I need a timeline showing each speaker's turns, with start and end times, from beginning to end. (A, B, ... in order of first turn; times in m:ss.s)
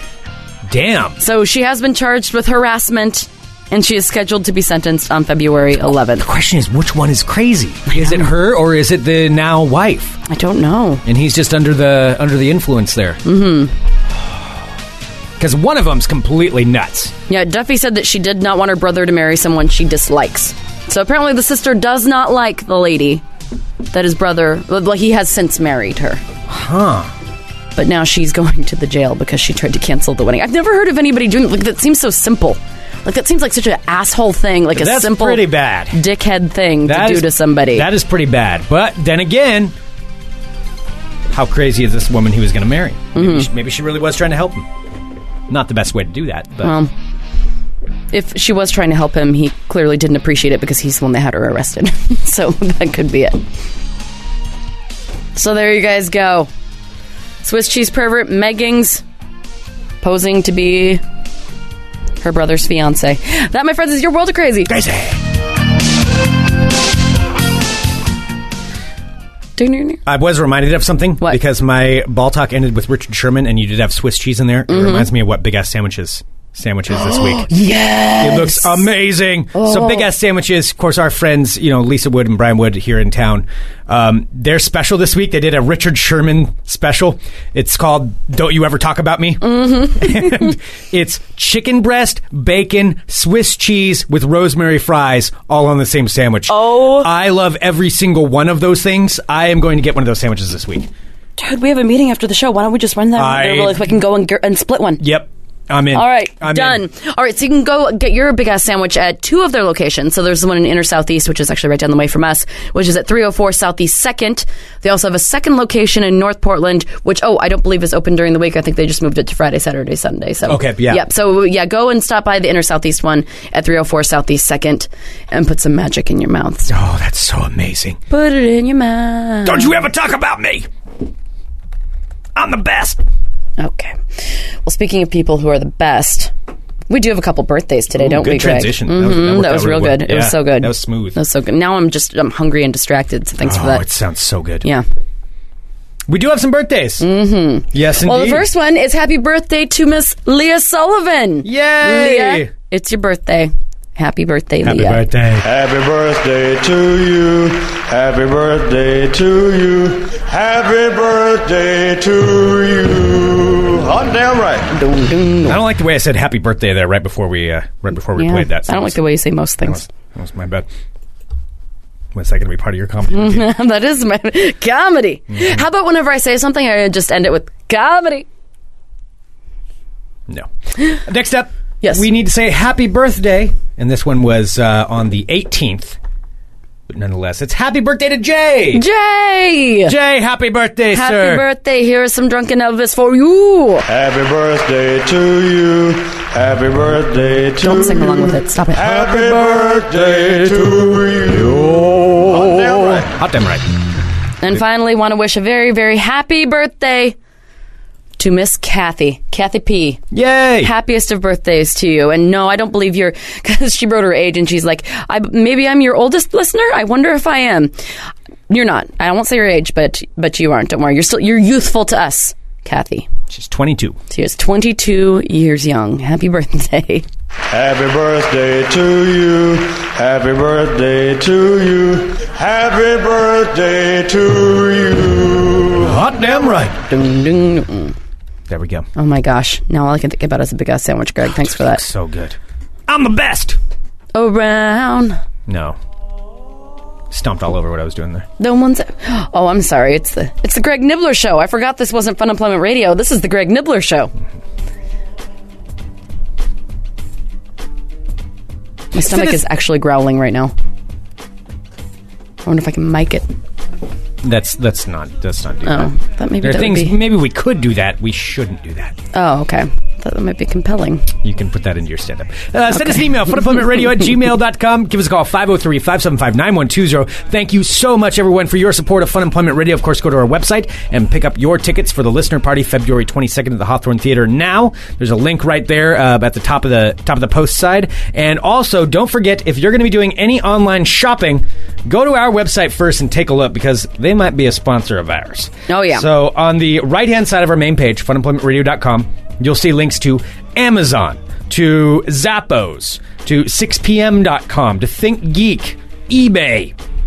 0:00.7-0:01.2 A
0:01.2-0:06.2 B
0:06.2-0:10.2 A
0:07.9-0:08.2 B
0:10.3-0:11.0 B
0:11.0-0:13.2 A
0:13.2-0:13.7 B
0:15.4-0:17.1 A
0:17.3-0:23.2 B
0:23.9-0:26.2 B
0:26.5-0:27.1 A
0:27.8-0:37.9 B
0:34.7-0:36.0 A
0:36.8-0:39.7 A
0:41.3-0:44.7 A
0:43.1-0:43.5 B
0:45.5-0:46.7 A
0:46.6-0:46.9 B
0:48.1-0:53.4 B
0:55.4-0:56.5 B
0:57.4-0:59.0 B
1:00.0-1:01.0 B
1:02.2-1:04.7 B
1:04.7-1:05.2 A
1:09.6-1:10.0 B
1:10.0-1:17.5 A
1:14.7-1:15.1 B
1:16.9-1:18.9 B
1:18.2-1:40.9 A
1:19.5-1:20.1 B
1:29.4-1:30.5 B
1:36.5-1:37.1 B
1:41.4-1:45.0 B
1:43.2-1:43.8 A
1:45.0-1:46.8 A
1:45.9-2:06.7 B
2:00.5-2:01.0 A
2:06.7-2:08.0 A
2:08.1-2:09.8 B
2:09.4-2:10.7 A
2:12.4-2:13.0 A
2:13.6-2:16.3 B
2:16.9-2:23.8 B
2:17.9-2:21.2 A
2:23.4-2:24.7 A
2:26.1-2:27.0 A
2:27.0-2:35.0 B
2:27.7-2:28.5 A
2:31.4-2:32.5 A
2:34.6-2:35.4 A
2:35.4-2:44.7 C
2:44.7-2:45.6 B
2:45.4-2:49.0 A
2:48.2-2:49.8 B
2:49.6-2:50.7 A
2:52.1-2:53.5 A
2:53.1-2:58.3 B
2:55.3-2:55.6 A
3:01.0-3:06.0 A
3:06.9-3:08.8 A
3:08.7-3:10.0 B
3:09.8-3:11.4 A
3:10.9-3:13.8 B
3:13.9-3:21.5 C
3:17.6-3:19.1 B
3:18.8-3:23.7 A
3:22.3-3:23.0 C
3:24.4-3:27.2 B
3:28.2-3:30.0 B
3:30.1-3:30.7 A
3:30.6-3:37.7 B
3:38.5-3:43.1 B
3:43.3-3:44.0 A
3:44.1-3:47.0 B
3:47.5-3:55.8 C
3:55.8-3:56.8 A
3:56.9-3:57.9 B
3:58.5-3:58.9 A
3:59.0-4:01.8 B
4:01.4-4:03.6 A
4:04.1-4:05.2 B
4:05.5-4:05.8 A
4:07.1-4:08.3 A
4:08.4-4:14.1 B
4:18.9-4:20.5 B
4:19.0-4:19.4 A
4:22.4-4:23.2 B
4:24.2-4:28.9 A
4:25.6-4:27.0 B
4:29.1-4:31.1 B
4:31.2-5:06.7 A
4:55.7-4:56.0 B